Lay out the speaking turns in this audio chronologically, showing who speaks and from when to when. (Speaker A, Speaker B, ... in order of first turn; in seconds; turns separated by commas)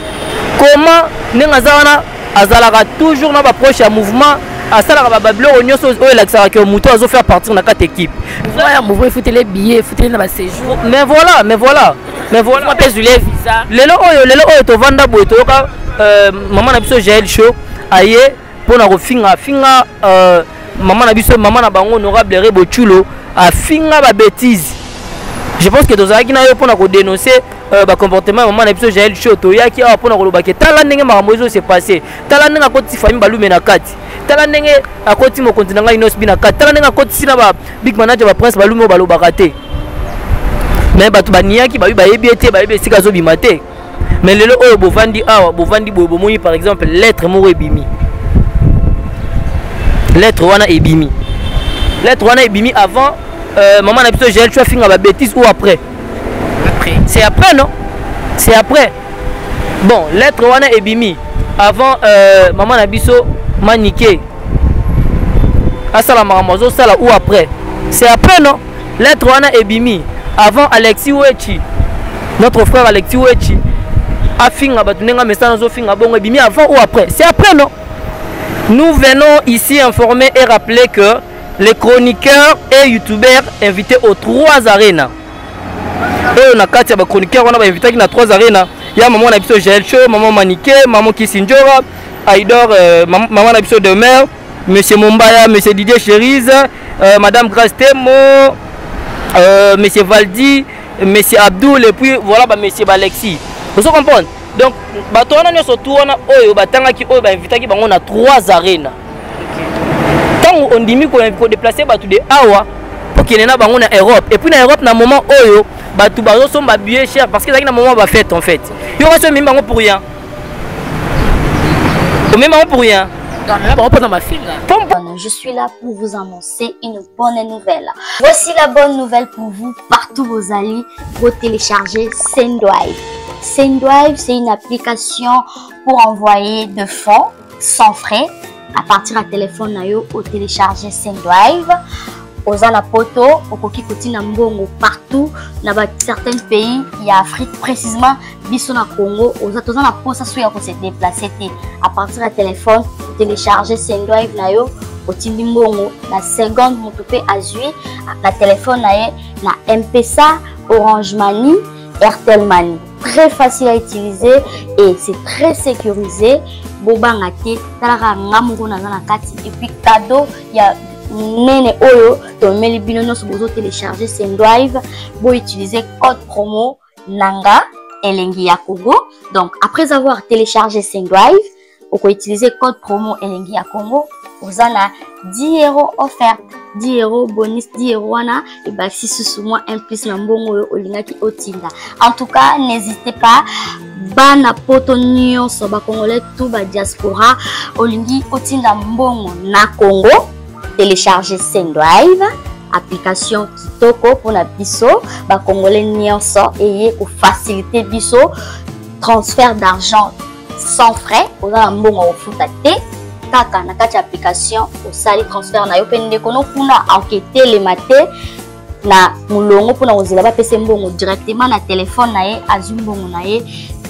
Speaker A: 0.6-8.7, Speaker B: 8.4-10.8, Speaker A: 10.6-12.9, Speaker B: 12.5-13.7, Speaker A: 13.7-24.8, Speaker A: 25.6-39.5, Speaker A: 40.9-43.6, Speaker A: 44.2-47.9, Speaker A: 50.1-51.1, Speaker A: 52.0-55.8, Speaker B: 56.6-57.0, Speaker A: 57.0-57.7, Speaker A: 58.4-58.9, Speaker A: 59.8-64.2, Speaker A: 65.9-71.6, Speaker A: 72.4-73.6, Speaker A: 74.4-77.7, Speaker A: 78.7-85.1, Speaker A: 86.3-98.6, Speaker A: 99.3-109.0, Speaker B: 109.4-109.7, Speaker A: 110.4-120.0, Speaker A: 122.3-123.1, Speaker B: 123.5-124.6, Speaker A: 124.7-125.0, Speaker C: 125.0-141.8, Speaker C: 142.5-193.4, Speaker C: 194.0-208.3, Speaker C: 209.0-212.8, Speaker C: 213.3-218.1, Speaker C: 218.8-223.5